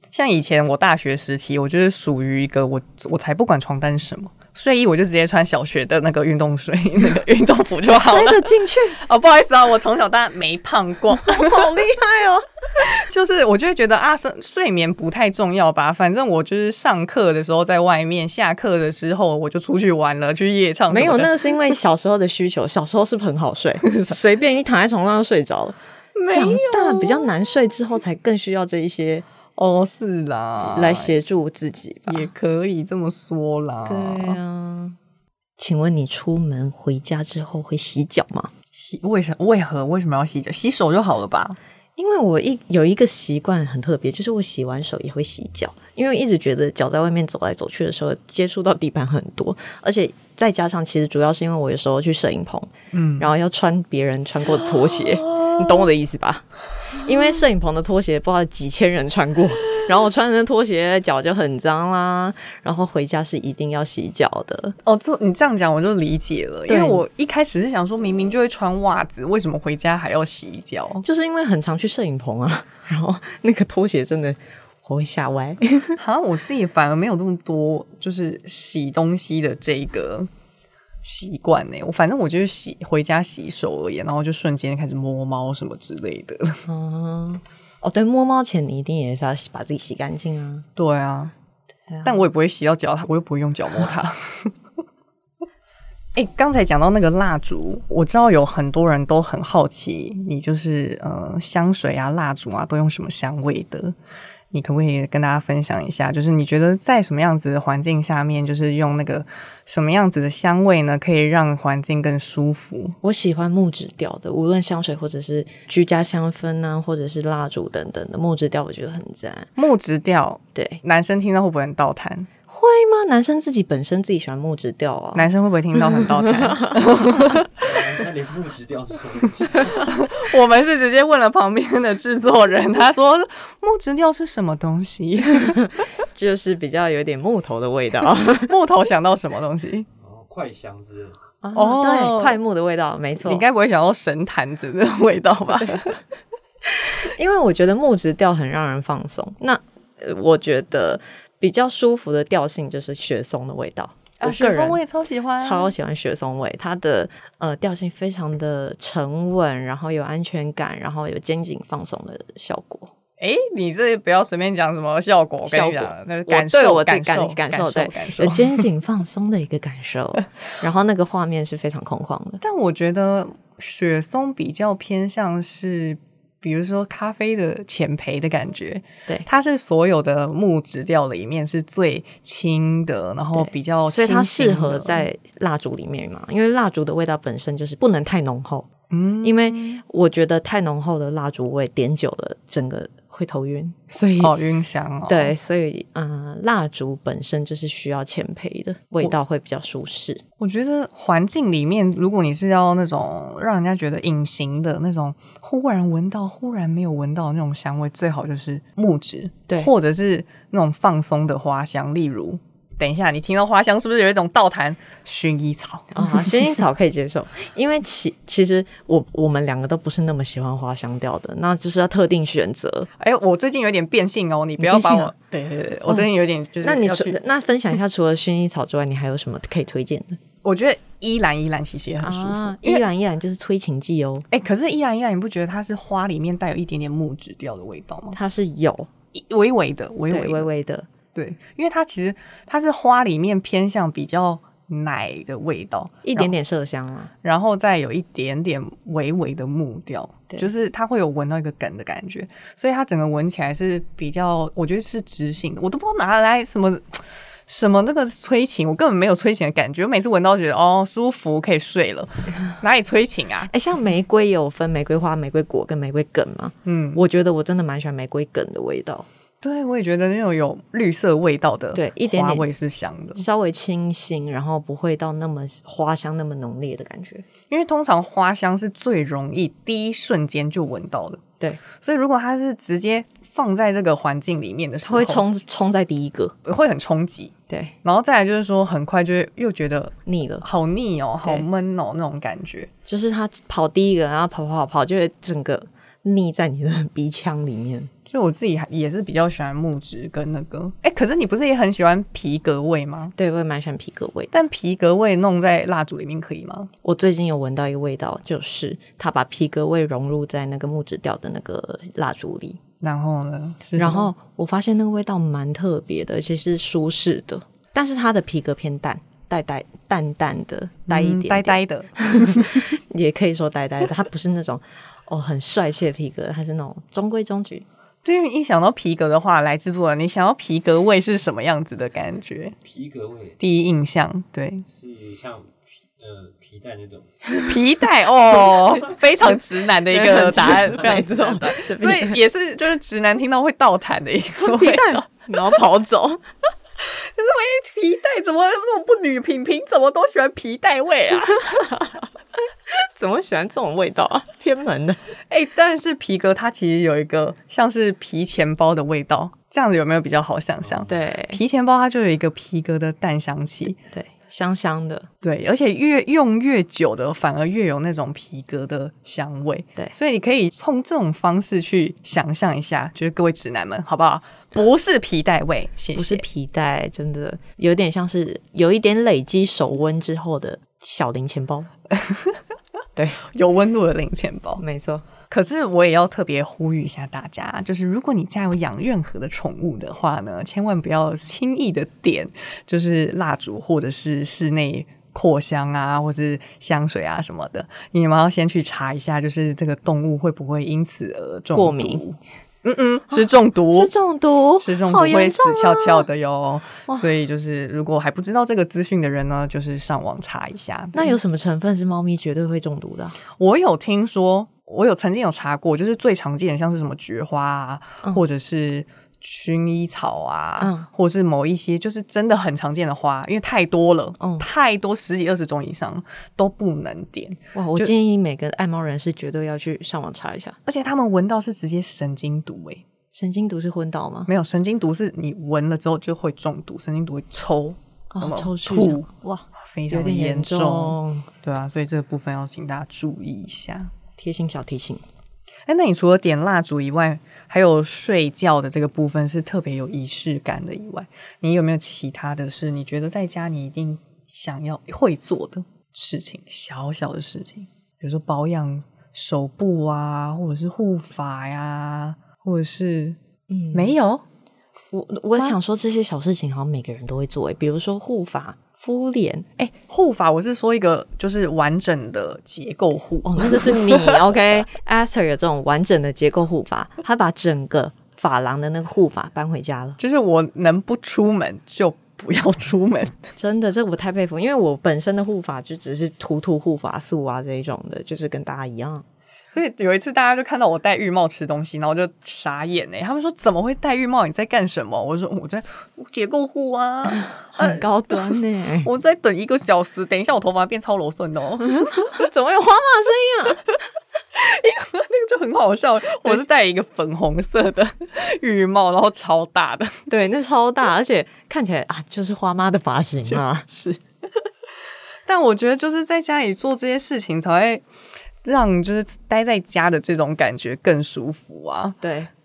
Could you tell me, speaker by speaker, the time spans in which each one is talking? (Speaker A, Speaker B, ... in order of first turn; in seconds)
Speaker A: 0.1-11.8, 12.8-21.7, 23.9-24.2, 26.1-27.3, 29.6-31.1, 32.1-34.4, 38.7-41.6, 52.9-53.3, 54.5-55.9, 64.8-71.0, 76.0-80.3, 81.0-86.6, 90.8-91.3, 92.0-94.5, 96.1-104.0, 104.5-113.0, 119.5-122.3, 125.1-127.6, 129.7-135.7, 138.3-139.9, 141.5-142.4, 143.2-146.0, 154.2-155.7, 163.2-168.7, 172.4-185.1, 188.9-189.8, 194.2-195.3, 200.4-216.4, 223.0-227.2, 230.4-232.8, 234.3-238.2, 239.1-240.5, 241.1-246.3, 247.2-263.5, 266.6-267.0, 269.4-273.2, 277.5-281.2, 281.7-285.2, 286.4-292.7, 298.1-303.1, 304.3-306.7, 312.8-314.1, 320.9-322.7, 328.0-332.6, 333.4-334.6, 337.5-345.1, 346.8-351.7, 355.3-363.8, 365.2-376.2, 381.9-382.4, 383.2-384.6, 385.3-403.9, 404.6-411.2, 413.4-427.9, 430.6-432.8, 434.3-439.1, 439.6-443.9, 445.7-463.2, 463.7-464.2, 469.6-474.3, 480.0-483.2, 489.5-502.1, 504.3-510.0, 513.3-514.0, 515.2-517.8, 518.4-522.0
Speaker B: 7.9-9.0, 11.2-12.4, 20.9-29.2, 30.6-32.3, 33.9-35.0, 35.6-38.5, 42.0-64.8, 66.7-67.0, 71.0-76.0, 86.7-90.7, 91.9-92.2, 113.0-119.5, 120.5-120.8, 122.5-125.3, 125.9-126.8, 135.5-138.5, 141.4-143.4, 146.8-154.8, 155.4-162.9, 165.4-172.4, 183.3-188.7, 189.2-194.3, 195.1-200.2, 215.9-222.9, 224.6-225.1, 226.6-230.2, 232.0-234.3, 238.1-238.9, 240.1-240.9, 246.0-247.1, 263.5-269.1, 271.7-272.5, 273.1-277.2, 284.8-286.4, 287.5-287.7, 290.1-290.4, 292.9-297.9, 303.2-304.3, 306.8-312.6, 313.8-327.6, 339.9-342.2, 344.4-346.2, 351.5-351.9, 352.7-355.0, 360.9-361.4, 363.9-365.1, 375.9-381.7, 382.9-383.2, 384.6-385.0, 401.5-402.0, 403.7-406.1, 410.9-413.2, 420.6-420.9, 424.2-424.4, 427.5-430.6, 433.1-434.3, 438.1-441.3, 444.2-445.0, 463.5-463.9, 464.9-469.5, 473.2-480.0, 483.4-489.0, 497.1-498.9, 501.6-503.7, 510.1-513.7, 522.0-522.3
Speaker C: 127.6-130.0, 140.0-141.2, 332.6-333.4, 334.6-337.2